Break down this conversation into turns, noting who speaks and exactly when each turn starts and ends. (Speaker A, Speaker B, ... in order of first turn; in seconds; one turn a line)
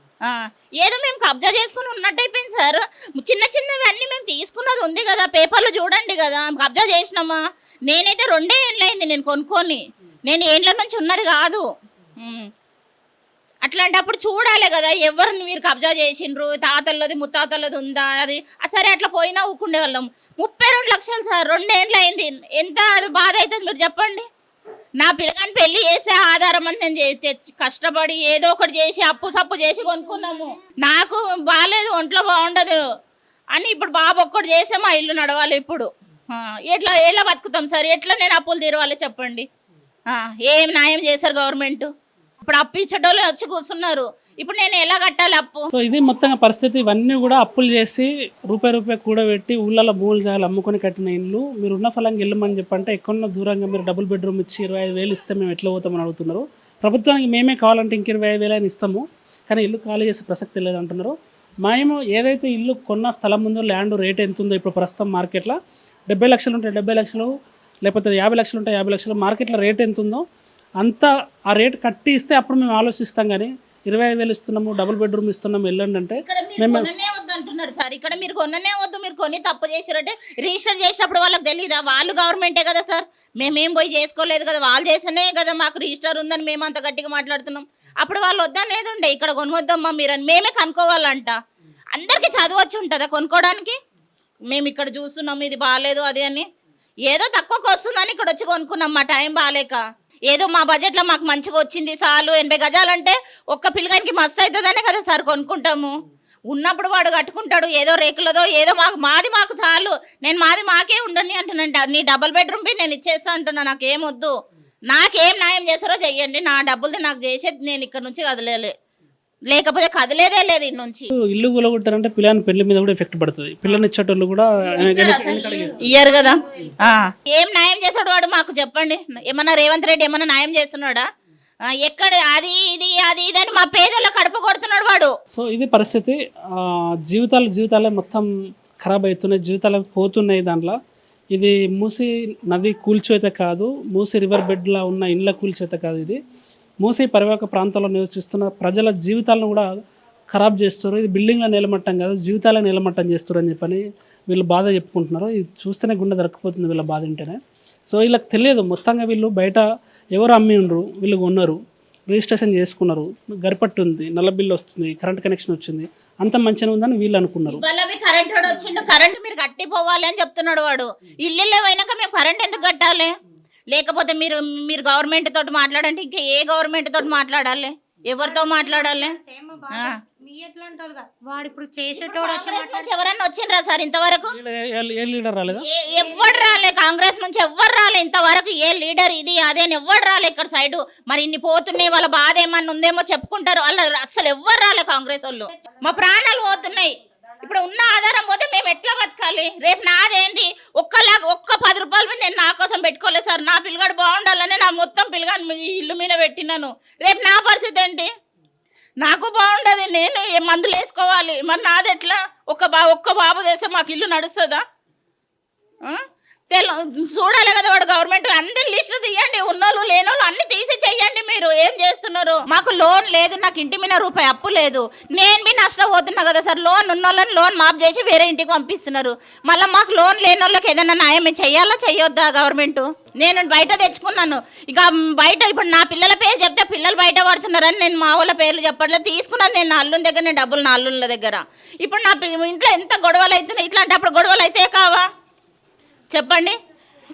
Speaker A: 0.2-11.7
Speaker A: 12.2-12.5
Speaker A: 13.6-24.2
Speaker A: 25.0-32.8
Speaker A: 33.5-39.5
Speaker A: 40.1-41.9
Speaker A: 42.4-45.7
Speaker B: 45.7-65.6
Speaker B: 66.1-67.3
Speaker B: 67.8-70.2
Speaker B: 70.8-76.9
Speaker A: 76.2-91.4
Speaker A: 91.9-93.8
Speaker A: 94.5-96.5
Speaker A: 97.1-105.9
Speaker A: 106.5-114.3
Speaker A: 114.9-118.7
Speaker A: 119.5-121.1
Speaker B: 121.2-126.6
Speaker A: 124.8-131.0
Speaker A: 131.8-135.1
Speaker B: 135.3-138.3
Speaker B: 138.8-140.8
Speaker B: 141.3-146.2
Speaker B: 146.8-149.7
Speaker B: 150.3-157.4
Speaker B: 157.9-161.6
Speaker B: 162.1-167.6
Speaker A: 167.5-173.1
Speaker A: 173.7-179.2
Speaker C: 178.4-182.9
Speaker A: 182.0-184.3
Speaker B: 184.3-185.7
Speaker A: 185.5-208.1
Speaker C: 186.0-186.6
Speaker A: 209.0-214.6
Speaker A: 215.8-245.1
Speaker A: 246.1-246.6